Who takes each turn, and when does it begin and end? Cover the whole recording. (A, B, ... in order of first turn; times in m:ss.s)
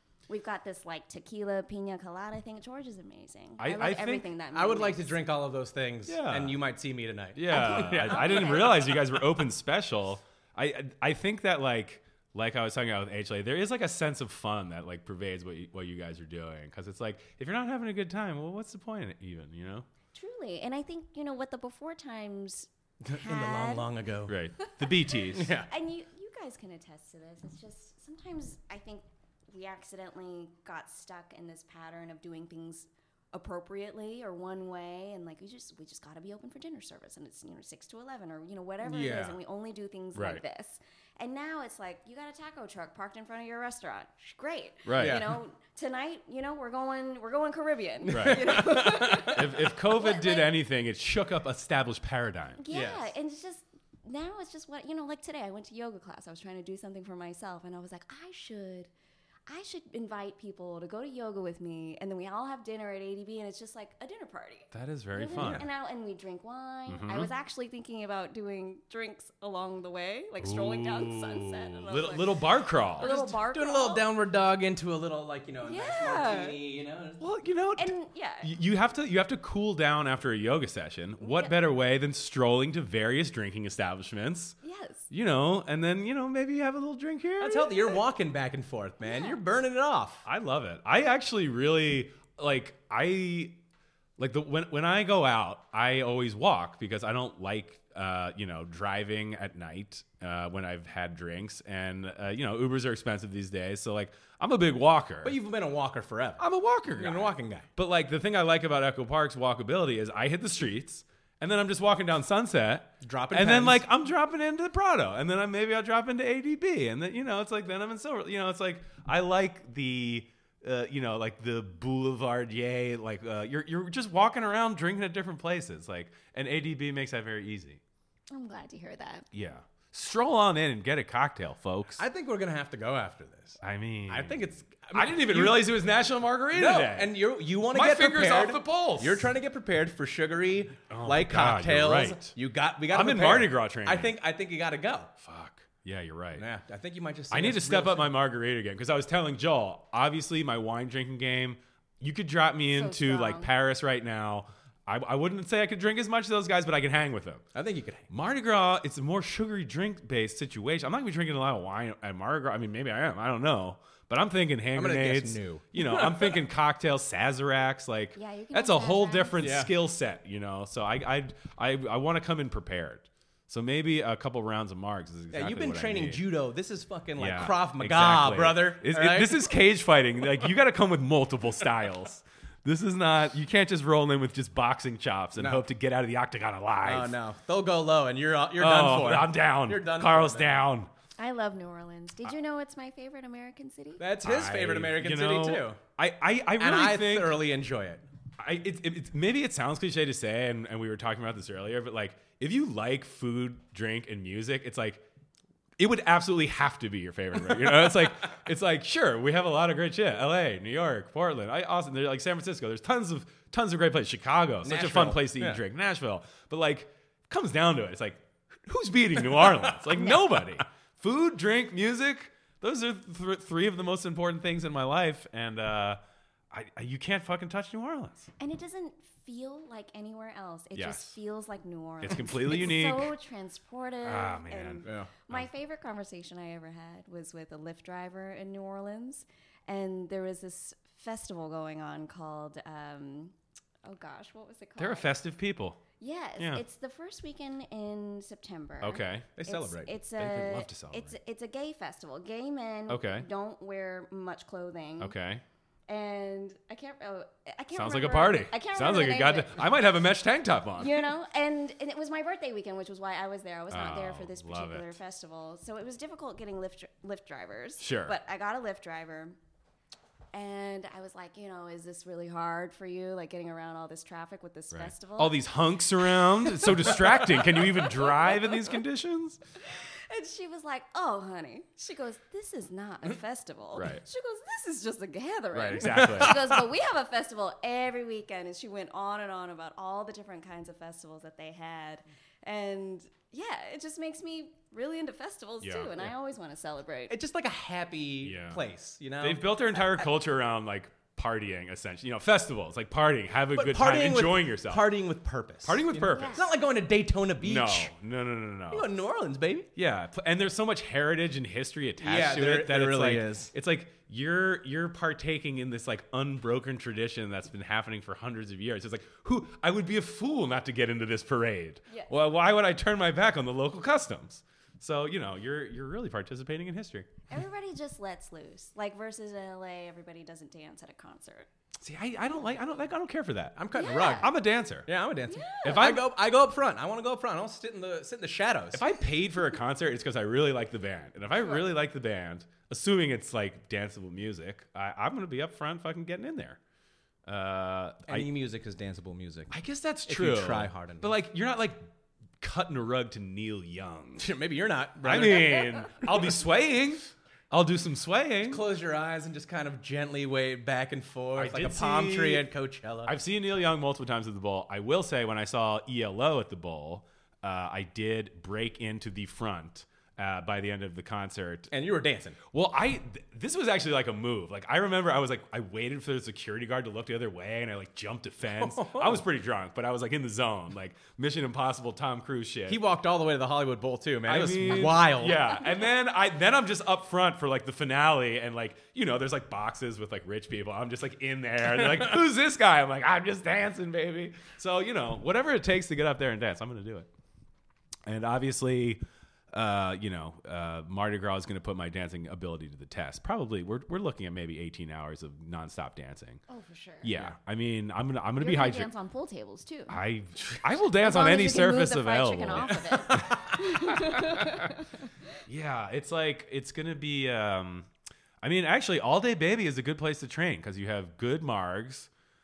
0:00.3-0:05.2 A
0:03.6-0:04.3 B
0:04.5-0:08.9 C
0:06.1-0:06.6 B
0:07.3-0:19.9 B
0:07.5-0:09.0 A
0:20.1-0:23.9 A
0:23.0-0:24.3 C
0:24.3-0:25.5 B
0:24.6-0:50.5 A
0:25.3-0:25.7 C
0:38.8-0:39.4 C
0:40.1-0:40.4 B
0:44.8-0:45.3 B
0:45.0-0:45.3 C
0:48.0-0:49.4 C
0:48.1-0:52.6 B
0:52.6-0:58.9 A
0:52.7-0:53.1 C
0:59.5-1:14.0 A
1:04.7-1:05.6 B
1:05.4-1:05.6 C
1:06.9-1:07.3 B
1:10.4-1:13.1 B
1:13.0-1:17.2 C
1:15.6-1:16.6 A
1:17.2-1:24.6 B
1:17.8-1:18.5 A
1:21.2-1:21.5 A
1:24.6-1:25.1 A
1:25.1-1:27.7 B
1:27.4-1:30.2 C
1:29.0-1:29.4 A
1:30.2-1:33.6 B
1:34.2-1:45.4 B
1:45.2-1:47.7 C
1:46.4-2:07.8 B
1:53.0-1:53.8 C
2:08.3-2:09.3 A
2:09.3-2:12.0 B
2:12.0-2:15.7 C
2:13.6-2:17.2 B
2:16.5-2:25.1 C
2:17.7-2:19.3 B
2:20.9-2:22.3 B
2:22.9-2:24.1 B
2:25.2-2:26.4 B
2:26.4-2:28.1 C
2:27.3-2:37.4 B
2:32.7-2:33.5 A
2:37.5-2:38.1 C
2:38.1-2:56.2 B
2:44.7-2:46.4 C
2:48.2-2:49.4 A
2:49.4-2:49.7 C
2:55.3-2:59.5 C
2:57.2-3:07.2 B
3:05.4-3:05.6 C
3:06.8-3:10.6 C
3:08.6-3:10.9 B
3:11.2-3:14.0 A
3:14.0-3:15.8 C
3:14.2-3:17.4 B
3:16.6-3:18.0 C
3:18.4-3:25.0 B
3:25.8-3:46.0 B
3:34.6-3:35.6 C
3:39.4-3:39.7 C
3:46.5-3:48.3 B
3:48.4-4:05.1 A
3:50.7-3:51.2 B
3:52.0-3:53.1 B
3:54.0-3:55.5 B
3:54.8-3:55.1 C
4:04.8-4:05.8 B
4:06.0-4:15.1 A
4:06.4-4:06.6 B
4:08.8-4:09.3 B
4:09.4-4:09.9 C
4:10.2-4:11.1 B
4:12.9-4:13.2 B
4:15.0-4:15.4 B
4:15.9-4:19.7 A
4:17.7-4:21.1 B
4:20.8-4:29.4 A
4:23.7-4:24.9 B
4:27.8-4:28.2 B
4:30.3-4:35.5 A
4:34.7-4:39.4 B
4:36.0-4:38.8 A
4:39.6-4:57.1 A
4:43.7-4:44.0 B
4:45.5-4:46.6 B
4:45.8-4:46.3 C
4:55.6-4:56.1 B
4:57.1-4:59.5 C
4:58.2-4:58.6 B
4:59.2-5:04.9 B
5:03.5-5:07.9 C
5:05.6-5:06.5 B
5:06.1-5:06.5 A
5:07.4-5:08.9 B
5:08.7-5:09.7 C
5:09.8-5:27.1 B
5:12.0-5:13.5 C
5:27.3-5:31.5 A
5:31.8-5:34.9 B
5:33.6-5:34.3 C
5:33.7-5:34.3 A
5:34.8-5:38.8 C
5:35.3-5:35.9 A
5:35.6-5:36.1 B
5:38.7-5:46.6 B
5:47.2-5:48.3 B
5:48.1-5:49.5 C
5:49.5-5:54.3 B
5:50.0-5:51.1 C
5:54.2-5:55.9 C
5:55.0-5:58.6 B
5:58.4-6:03.1 C
6:01.4-6:02.5 B
6:03.0-6:11.7 B
6:11.7-6:12.4 C
6:12.5-6:22.8 B
6:18.6-6:19.2 C
6:22.7-6:25.6 C
6:24.2-6:37.1 B
6:31.8-6:32.1 C
6:38.0-6:39.0 B
6:39.5-6:46.4 B
6:46.5-6:47.1 A
6:47.0-6:48.9 B
6:48.4-6:50.0 A
6:49.9-6:53.4 B
6:50.9-6:55.1 A
6:52.9-6:53.6 C
6:53.9-6:54.7 B
6:55.5-6:57.9 B
6:58.4-7:02.1 B